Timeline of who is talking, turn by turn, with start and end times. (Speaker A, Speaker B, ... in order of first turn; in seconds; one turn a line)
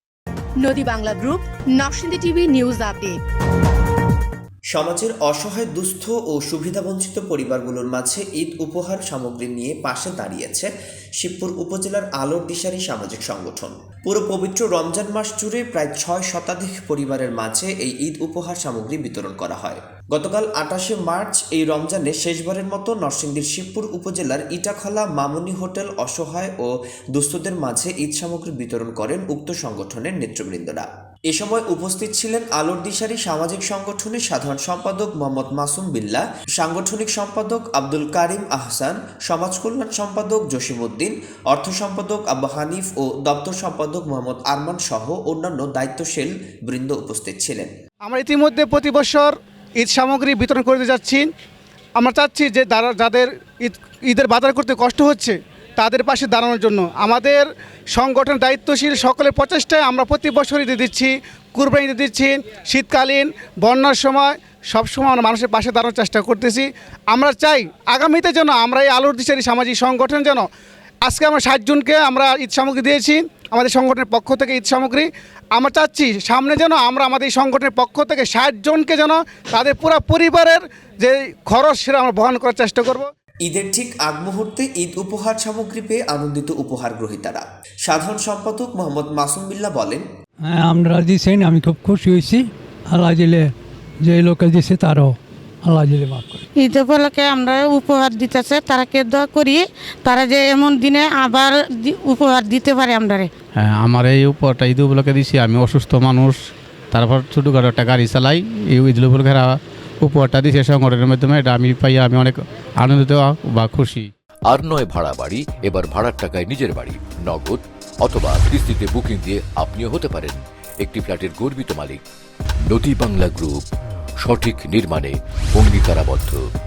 Speaker A: 0.6-3.2
Speaker B: 4.7-47.7
Speaker C: 48.0-51.3
Speaker C: 52.0-70.5
Speaker C: 71.0-83.1
Speaker B: 83.4-90.0
Speaker D: 90.5-93.5
Speaker D: 94.0-96.5
Speaker E: 96.6-103.3
Speaker F: 103.6-106.4
Speaker F: 106.9-114.1
Speaker G: 114.5-122.0
Speaker G: 122.7-123.6
Speaker G: 124.2-126.4